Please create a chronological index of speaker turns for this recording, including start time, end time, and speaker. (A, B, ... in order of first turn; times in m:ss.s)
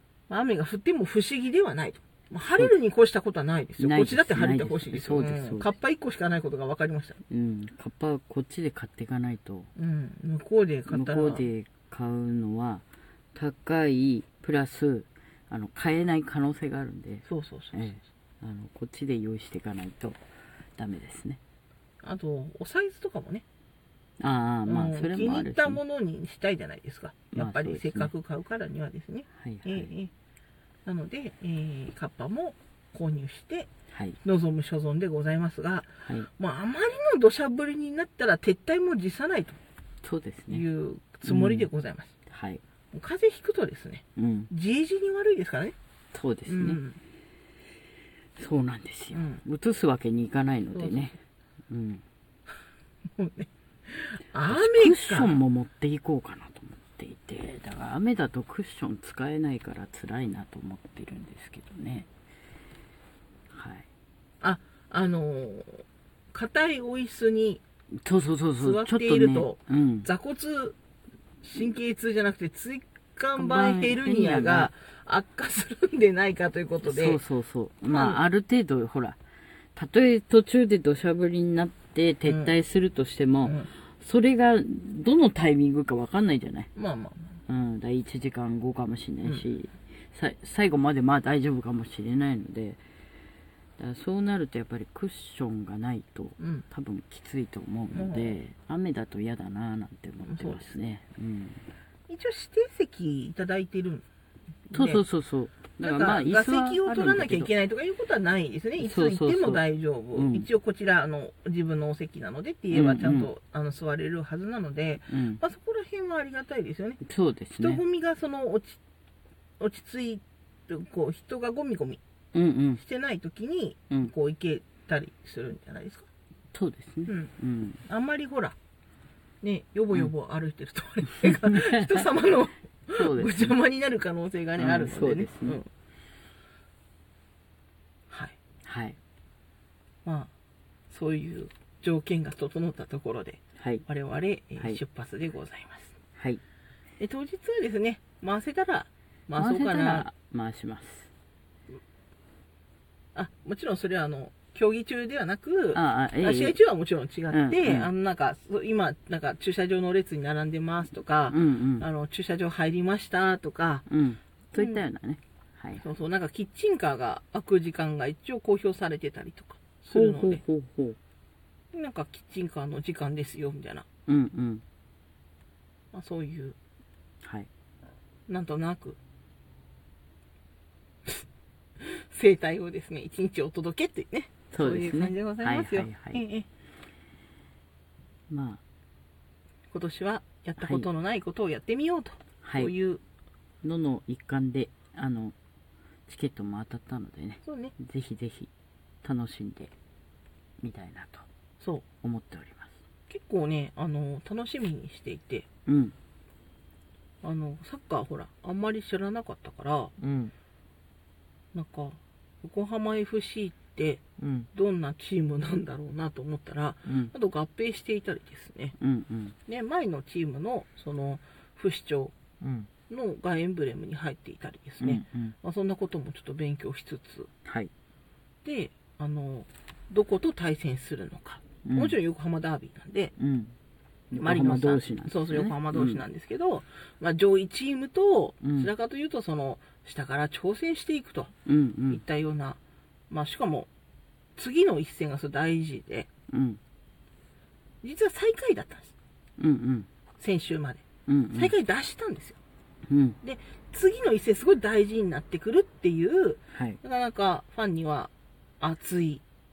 0:00.3-0:07.2 A
0:03.8-0:05.7 B
0:07.3-0:09.7 B
0:09.8-0:11.5 A
0:10.9-0:20.2 B
0:17.2-0:18.0 A
0:20.8-0:21.4 B
0:22.0-0:23.4 A
0:24.2-0:25.8 B
0:24.7-0:30.1 A
0:27.3-0:28.1 B
0:29.4-0:29.9 B
0:30.9-0:33.7 A
0:33.9-0:34.2 B
0:34.2-0:39.6 A
0:40.0-0:40.7 B
0:40.5-0:42.1 A
0:41.3-0:41.7 B
0:42.3-0:42.6 B
0:42.9-0:45.8 A
0:44.2-0:44.5 B
0:46.1-0:46.8 B
0:46.5-0:47.0 A
0:48.4-0:51.2 B
0:49.1-0:49.4 A
0:50.8-0:51.2 A
0:51.7-0:52.0 B
0:53.2-0:55.4 A
0:54.5-1:02.1 B
1:03.5-1:03.9 B
1:04.4-1:07.6 A
1:08.0-1:10.1 B
1:08.6-1:10.8 A
1:11.4-1:17.2 A
1:13.4-1:14.7 B
1:16.8-1:19.2 B
1:17.9-1:18.2 A
1:19.8-1:26.7 B
1:22.2-1:22.5 A
1:26.8-1:27.4 A
1:27.5-1:32.8 B
1:33.8-1:41.6 B
1:36.4-1:36.6 A
1:37.9-1:38.4 A
1:40.2-1:40.8 A
1:42.1-1:44.1 A
1:44.7-1:45.0 A
1:44.7-1:47.5 B
1:45.8-1:57.0 A
1:48.8-1:50.5 B
1:52.7-1:53.3 B
1:55.1-1:55.4 B
1:57.0-1:57.8 B
1:57.6-1:58.8 A
1:59.6-2:02.0 A
2:02.3-2:02.8 B
2:02.8-2:06.1 A
2:06.5-2:07.8 B
2:07.1-2:07.3 A
2:07.9-2:08.6 A
2:09.4-2:15.7 A
2:11.2-2:12.0 B
2:12.9-2:13.5 B
2:14.6-2:15.6 B
2:18.1-2:18.4 A
2:18.6-2:19.0 B
2:20.0-2:20.3 A
2:20.9-2:26.0 A
2:23.6-2:23.8 B
2:26.2-2:26.4 B
2:27.0-2:30.1 A
2:29.4-2:31.1 B
2:33.2-2:43.9 A
2:35.7-2:36.6 B
2:37.3-2:37.9 B
2:41.3-2:41.9 B
2:43.9-2:45.8 B
2:44.6-2:44.8 A
2:45.8-2:50.4 A
2:49.9-2:51.0 B
2:51.7-2:53.9 A
2:54.1-2:54.6 B
2:55.9-2:56.6 A
2:57.2-2:57.5 B
2:58.3-2:59.0 A
3:01.8-3:06.5 A
3:04.5-3:06.2 B
3:08.3-3:08.6 B
3:09.7-3:13.0 A
3:10.6-3:10.9 B
3:12.4-3:12.7 B
3:13.6-3:15.4 B
3:16.1-3:18.5 B
3:17.4-3:17.8 A
3:19.0-3:19.7 B
3:20.6-3:21.3 B
3:21.6-3:21.8 A
3:22.0-3:22.7 B
3:23.1-3:25.5 A
3:25.7-3:26.0 B
3:27.2-3:29.9 A
3:30.0-3:30.3 B
3:31.5-3:38.8 A
3:34.2-3:34.5 B
3:36.9-3:37.1 B
3:38.8-3:39.4 B
3:39.5-3:42.2 A
3:42.4-3:42.7 B
3:42.9-3:47.3 A
3:44.8-3:45.4 B
3:47.4-3:47.7 B
3:48.4-3:53.1 A
3:51.6-3:52.0 B
3:53.2-3:53.6 B
3:54.1-3:56.0 B
3:54.1-4:01.3 A
3:58.4-3:58.7 B
4:01.5-4:02.0 B
4:01.9-4:02.6 A
4:03.1-4:03.7 A
4:04.4-4:06.1 A
4:06.3-4:06.6 B
4:07.8-4:08.9 A
4:09.4-4:09.9 B
4:10.2-4:10.8 A
4:11.1-4:11.5 B
4:11.3-4:12.4 A
4:12.9-4:13.2 B
4:13.2-4:19.2 A
4:16.5-4:16.8 B